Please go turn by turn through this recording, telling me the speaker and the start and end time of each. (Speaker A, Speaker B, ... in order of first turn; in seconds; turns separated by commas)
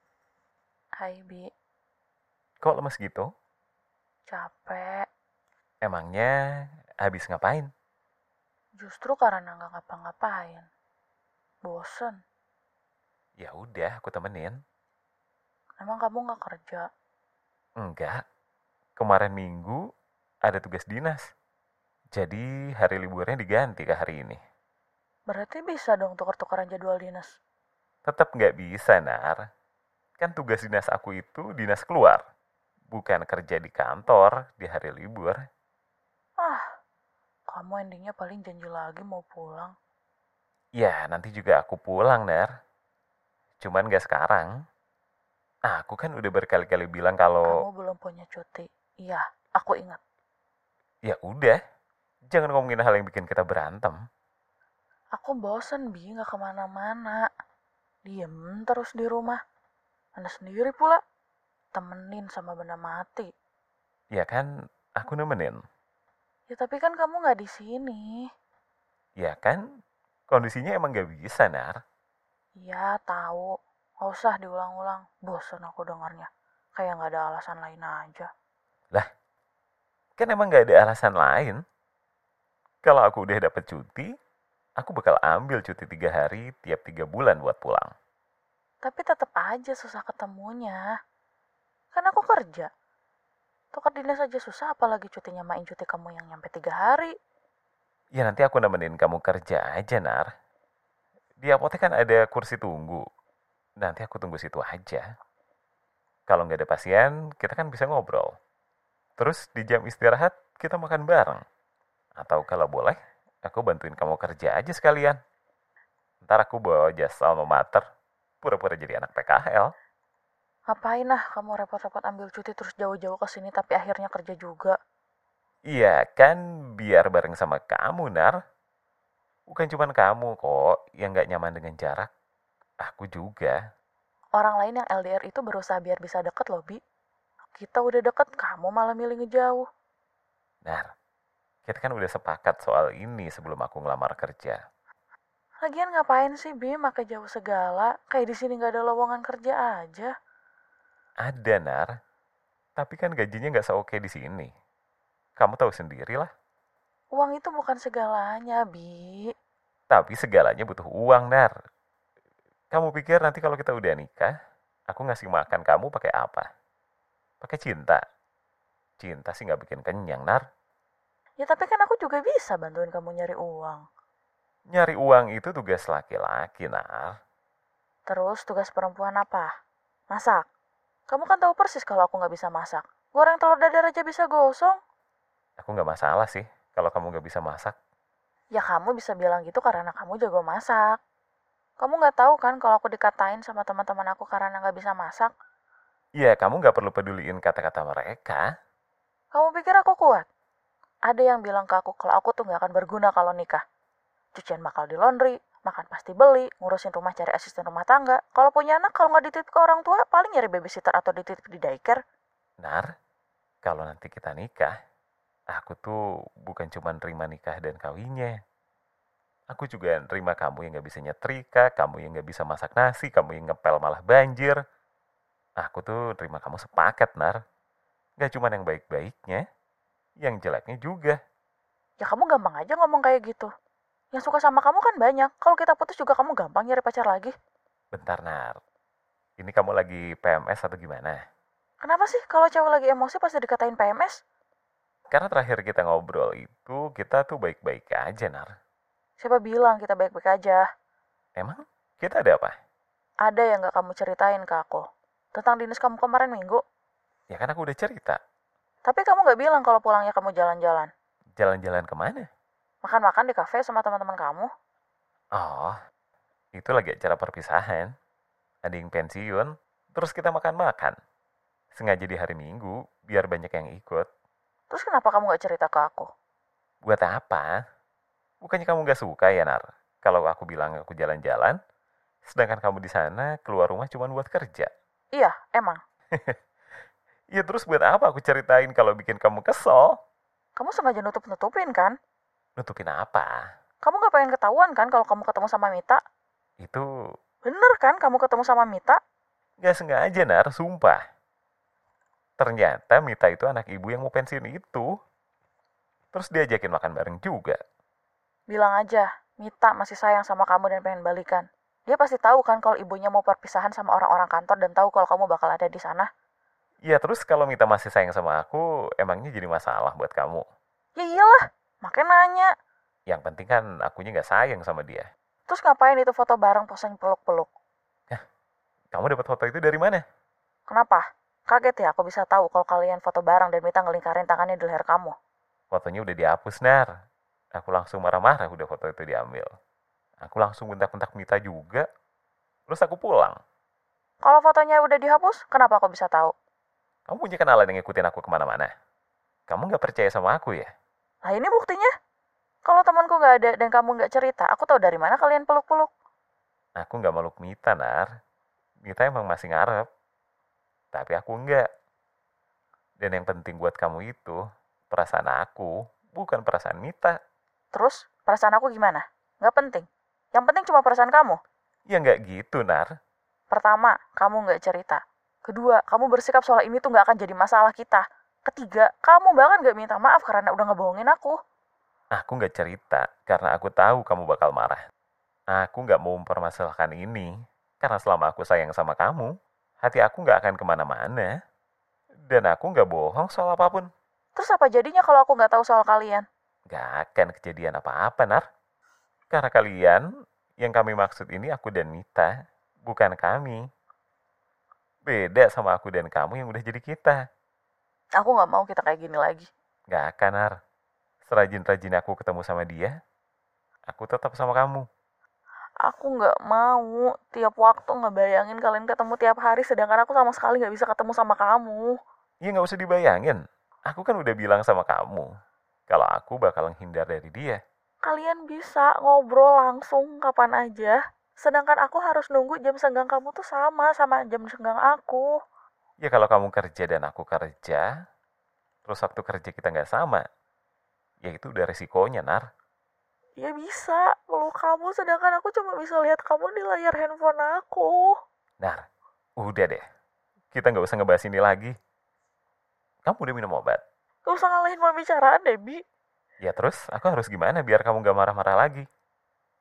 Speaker A: 1.0-1.5, Speaker B: 2.6-3.3, Speaker A: 4.3-5.0, Speaker B: 5.8-6.3, Speaker B: 7.0-7.7, Speaker A: 8.8-10.7, Speaker A: 11.6-12.2, Speaker B: 13.4-14.6, Speaker A: 15.8-16.8, Speaker B: 17.8-18.2, Speaker B: 19.0-19.8, Speaker B: 20.4-21.2, Speaker B: 22.1-24.4, Speaker A: 25.3-27.3, Speaker B: 28.1-29.4, Speaker B: 30.2-32.2, Speaker B: 32.9-35.4, Speaker A: 37.5-39.7, Speaker B: 40.8-42.5, Speaker B: 43.6-44.5, Speaker B: 45.7-47.5, Speaker A: 47.5-50.0, Speaker B: 51.0-51.5, Speaker B: 52.3-54.0, Speaker A: 55.2-57.2, Speaker A: 58.1-59.4, Speaker A: 60.2-61.0, Speaker A: 61.7-63.3, Speaker B: 64.1-65.6, Speaker A: 66.5-68.2, Speaker B: 69.2-69.6, Speaker B: 70.3-71.8, Speaker A: 72.6-73.5, Speaker A: 74.0-78.3, Speaker B: 80.2-81.6, Speaker B: 82.8-84.1, Speaker B: 84.8-87.9, Speaker A: 88.8-90.8, Speaker A: 91.9-92.7, Speaker A: 93.7-97.1, Speaker B: 98.1-100.3, Speaker B: 101.4-103.0, Speaker B: 103.8-105.0, Speaker B: 106.3-108.3, Speaker B: 109.2-111.4, Speaker B: 112.2-115.2, Speaker B: 116.2-117.8, Speaker B: 118.4-119.7, Speaker A: 120.7-124.8, Speaker B: 125.7-128.3, Speaker B: 129.5-132.1, Speaker B: 132.8-133.6, Speaker A: 134.4-136.8, Speaker A: 137.6-139.6, Speaker B: 141.7-144.6, Speaker A: 145.6-150.1, Speaker B: 151.2-151.9, Speaker B: 152.8-154.5, Speaker B: 155.4-156.3, Speaker A: 157.1-159.3, Speaker B: 159.9-161.5, Speaker B: 162.7-164.3, Speaker B: 164.9-166.5, Speaker B: 167.4-168.0, Speaker B: 169.0-170.4, Speaker A: 171.4-173.8, Speaker B: 174.7-177.1, Speaker A: 178.1-179.5, Speaker A: 180.1-180.4, Speaker A: 181.1-184.8, Speaker B: 185.6-187.7, Speaker A: 188.5-190.9, Speaker A: 191.8-195.3, Speaker B: 196.2-198.4, Speaker A: 199.3-200.2, Speaker A: 201.1-203.6, Speaker A: 204.3-212.0, Speaker B: 212.6-212.9, Speaker B: 213.6-214.7, Speaker B: 215.5-218.3, Speaker B: 219.5-224.6, Speaker B: 225.6-227.4, Speaker B: 228.2-229.4, Speaker B: 230.2-231.2, Speaker A: 232.0-233.5, Speaker A: 234.1-237.3, Speaker B: 237.9-238.6, Speaker B: 239.4-241.2, Speaker A: 241.8-244.2, Speaker B: 245.1-248.5, Speaker A: 249.2-250.6, Speaker B: 251.4-252.5, Speaker A: 253.2-254.8, Speaker A: 255.3-256.6, Speaker B: 257.3-258.2, Speaker A: 258.9-260.9, Speaker B: 261.4-262.3, Speaker A: 262.8-264.5, Speaker B: 265.4-265.7, Speaker B: 266.5-267.9, Speaker B: 268.6-270.9, Speaker B: 271.7-274.1, Speaker A: 274.7-276.1, Speaker B: 276.8-277.5, Speaker B: 278.4-281.6, Speaker B: 282.3-284.7, Speaker A: 285.1-285.8, Speaker B: 287.3-289.9, Speaker A: 290.6-291.9, Speaker B: 292.6-293.3, Speaker A: 293.8-296.0, Speaker A: 297.4-299.0, Speaker B: 299.6-301.0, Speaker B: 302.4-304.9, Speaker B: 306.1-307.6, Speaker A: 308.5-316.1, Speaker B: 316.9-320.4, Speaker A: 320.9-322.5, Speaker B: 323.1-325.1, Speaker A: 325.5-327.5, Speaker B: 328.9-330.0, Speaker A: 330.7-335.1, Speaker B: 335.7-336.9, Speaker B: 337.6-339.5, Speaker B: 340.2-341.9, Speaker B: 342.7-343.4, Speaker A: 344.2-346.3, Speaker B: 347.1-348.7, Speaker B: 349.5-350.7, Speaker A: 351.2-351.9, Speaker A: 352.6-355.9, Speaker B: 356.8-358.1, Speaker B: 358.9-359.9, Speaker B: 360.9-361.6, Speaker B: 363.0-364.4, Speaker B: 364.9-367.1, Speaker A: 367.7-371.4, Speaker B: 371.9-372.9, Speaker A: 373.5-381.4, Speaker B: 382.1-384.8, Speaker B: 385.5-391.3, Speaker B: 392.3-393.9, Speaker A: 394.4-396.2, Speaker B: 396.7-398.4, Speaker B: 399.3-400.0, Speaker B: 400.6-402.3, Speaker B: 402.9-403.6, Speaker B: 405.1-407.2, Speaker A: 408.2-409.5, Speaker B: 409.9-410.5, Speaker B: 411.3-412.9, Speaker B: 413.9-414.9, Speaker A: 415.8-421.9, Speaker B: 422.4-425.3, Speaker B: 425.9-427.6, Speaker A: 428.0-435.3, Speaker B: 436.0-437.8, Speaker B: 438.9-440.2, Speaker B: 441.2-442.4, Speaker A: 443.4-448.1, Speaker B: 449.4-449.8, Speaker B: 450.5-451.7, Speaker B: 453.1-453.8, Speaker A: 454.2-455.8, Speaker B: 456.4-458.9